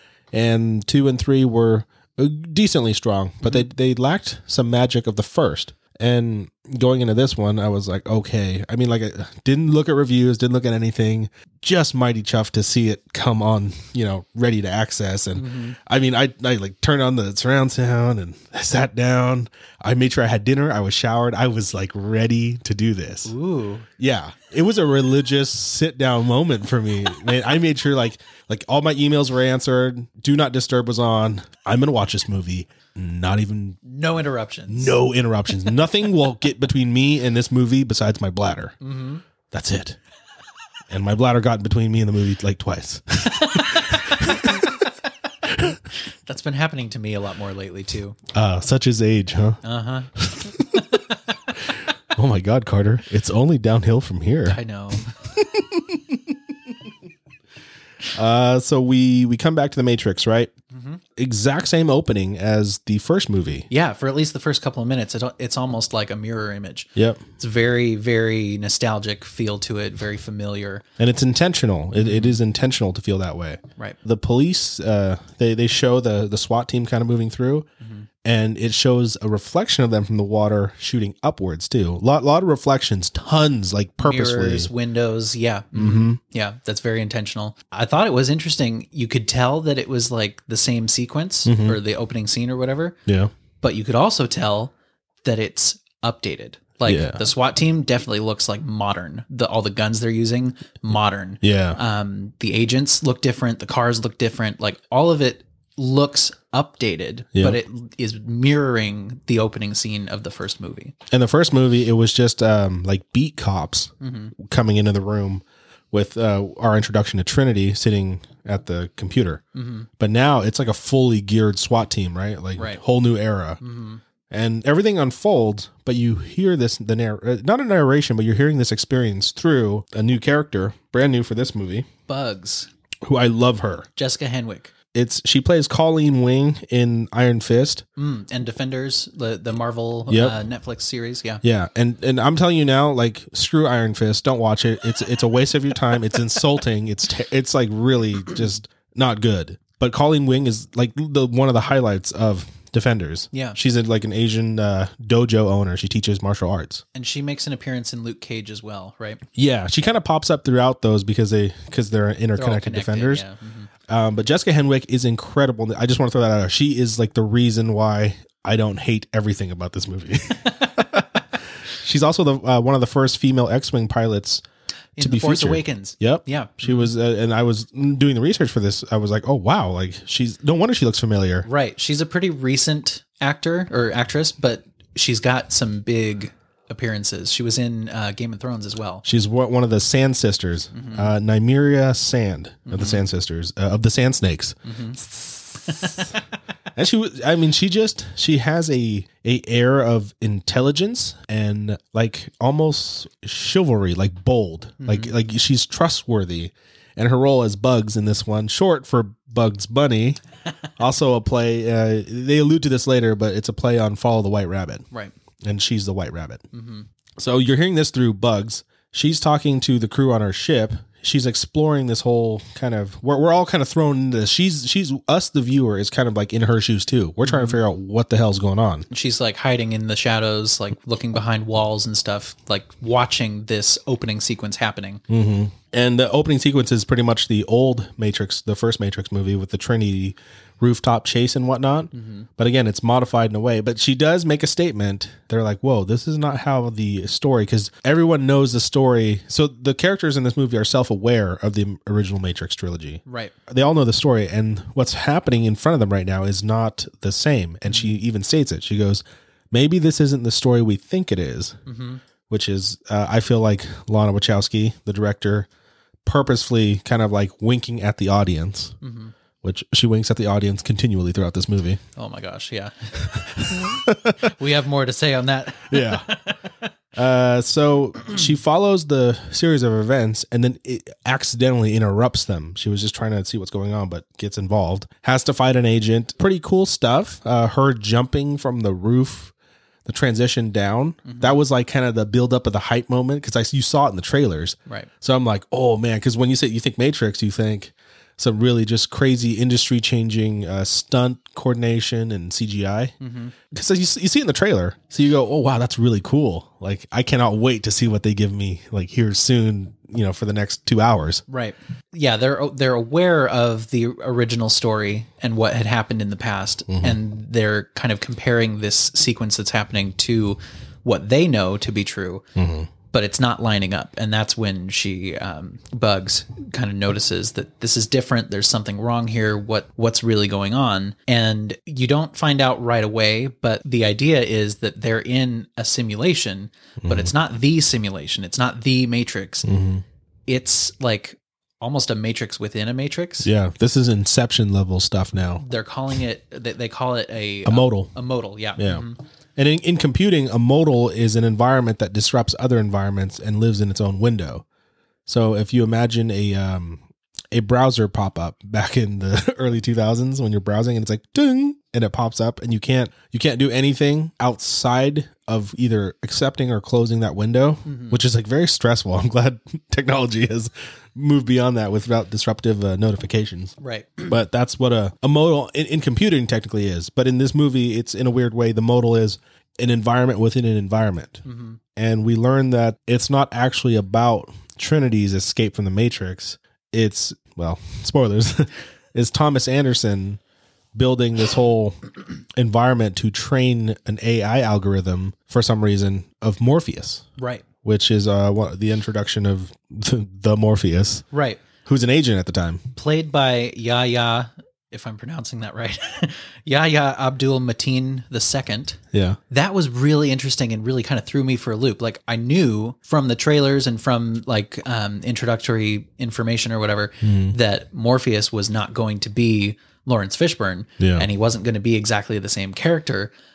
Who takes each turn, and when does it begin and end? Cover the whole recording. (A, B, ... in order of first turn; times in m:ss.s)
0:00.3-0:23.3 A
0:15.4-0:15.8 B
0:23.2-0:23.9 B
0:24.0-0:33.8 A
0:33.8-0:35.0 B
0:34.7-0:38.8 A
0:38.8-0:39.2 B
0:39.5-0:40.0 A
0:40.9-0:44.9 A
0:43.5-0:43.8 B
0:45.5-0:45.8 A
0:46.1-0:48.2 B
0:48.3-0:49.6 A
0:49.6-0:51.4 B
0:50.2-0:50.8 A
0:52.1-0:54.6 A
0:54.5-0:55.1 B
0:55.2-0:56.4 A
0:58.1-1:00.5 A
1:00.7-1:01.0 B
1:01.2-1:03.7 A
1:03.7-1:10.8 B
1:07.0-1:07.2 A
1:11.0-1:17.7 A
1:12.0-1:12.4 B
1:17.8-1:18.1 B
1:18.2-1:24.7 A
1:24.0-1:33.0 B
1:25.7-1:26.2 A
1:31.4-1:31.8 A
1:33.1-1:33.3 A
1:33.6-1:34.7 B
1:35.2-1:51.0 B
1:36.9-1:37.2 A
1:41.4-1:41.8 A
1:51.1-1:59.4 A
1:54.0-1:54.3 B
1:59.6-1:59.9 B
2:00.0-2:03.6 A
2:03.6-2:04.0 B
2:04.3-2:11.9 A
2:12.1-2:12.7 B
2:13.0-2:13.9 A
2:14.0-2:14.7 B
2:14.9-2:17.8 A
2:18.0-2:21.4 B
2:20.1-2:20.4 A
2:21.4-2:36.8 A
2:33.3-2:33.6 B
2:37.0-2:39.2 B
2:39.4-2:43.2 A
2:42.4-2:43.7 B
2:43.9-2:54.4 A
2:55.0-2:56.9 B
2:55.0-3:01.5 A
3:01.4-3:09.0 B
3:09.0-3:16.0 A
3:10.7-3:11.1 B
3:12.7-3:13.0 B
3:14.6-3:16.2 B
3:16.8-3:30.2 A
3:24.8-3:25.1 B
3:30.8-3:34.9 A
3:35.4-3:36.4 A
3:36.5-3:36.9 B
3:37.2-3:48.9 A
3:47.2-3:47.6 B
3:48.9-3:55.0 B
3:55.1-4:21.6 A
4:01.9-4:02.3 B
4:13.1-4:13.4 B
4:17.7-4:18.0 B
4:21.7-4:22.0 B
4:22.3-4:25.5 A
4:26.0-4:28.8 A
4:28.8-4:29.1 B
4:29.4-4:31.8 A
4:32.0-4:36.4 B
4:33.2-4:34.3 A
4:35.7-4:36.1 A
4:37.0-4:49.3 A
4:49.9-5:02.9 A
4:51.1-4:51.4 B
5:03.0-5:03.4 B
5:03.5-5:11.2 A
5:11.3-5:22.2 B
5:16.7-5:17.0 A
5:22.4-5:22.7 A
5:22.9-5:39.5 B
5:36.8-5:37.1 A
5:39.4-5:39.8 A
5:40.3-5:43.3 B
5:43.2-5:45.4 A
5:45.4-5:49.0 B
5:47.5-5:47.9 A
5:48.6-5:54.4 A
5:55.1-6:21.2 A
6:07.7-6:08.0 B
6:13.6-6:14.1 B
6:21.2-6:21.6 B
6:21.8-6:30.2 A
6:30.8-6:31.8 A
6:32.4-6:37.0 A
6:37.2-6:37.4 B
6:37.6-6:41.1 A
6:41.1-6:41.4 B
6:41.7-6:42.6 A
6:42.8-7:03.1 B
6:48.9-6:49.2 A
6:57.0-6:57.4 A
7:00.8-7:01.1 A